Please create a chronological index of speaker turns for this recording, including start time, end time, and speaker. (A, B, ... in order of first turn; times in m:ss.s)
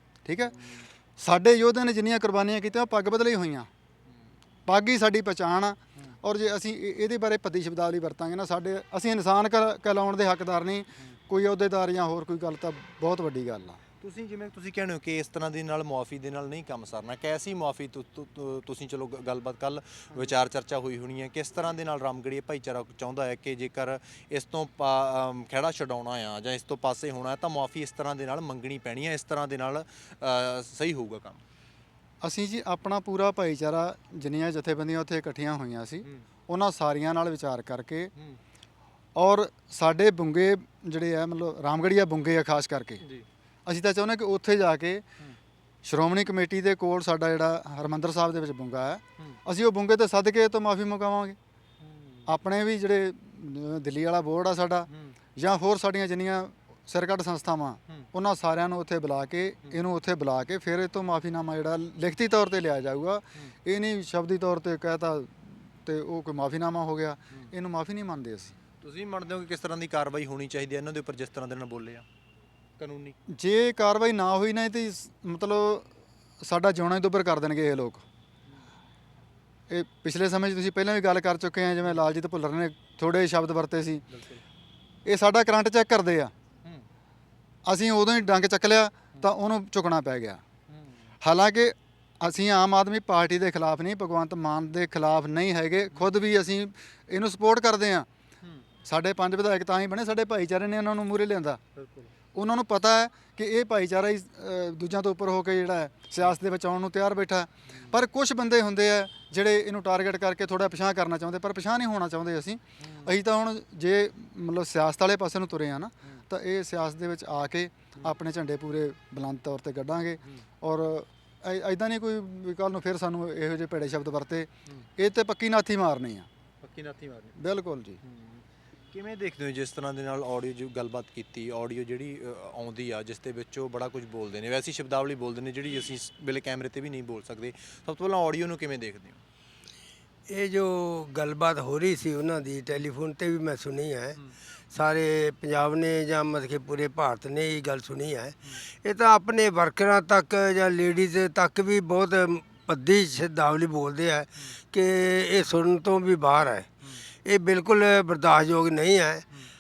0:00.2-0:00.6 A
0:00.5-0:00.9 B
0:01.2-0:03.7 A
0:04.6-0:13.8 A
0:14.0-0:31.4 B
0:32.2-0:38.1 A
0:38.1-0:38.4 B
0:39.2-0:43.0 A
0:43.6-0:45.0 A
0:45.8-0:51.4 A
0:51.8-0:52.3 B
0:52.3-1:08.6 A
0:54.9-0:55.2 B
1:08.8-1:12.0 B
1:12.8-1:13.2 B
1:13.3-1:15.9 A
1:16.4-1:18.0 A
1:19.7-1:24.0 A
1:24.1-1:24.4 B
1:25.0-1:26.3 A
1:27.6-1:30.4 A
1:30.7-1:31.1 B
1:31.2-1:38.1 A
1:38.8-1:41.6 A
1:41.8-1:42.1 B
1:42.3-2:06.3 A
1:47.7-1:48.0 B
1:52.8-1:53.1 B
2:06.6-2:07.4 B
2:07.4-2:08.0 A
2:08.0-2:19.2 B
2:20.3-2:24.2 C
2:24.7-2:36.7 C
2:37.2-2:39.2 C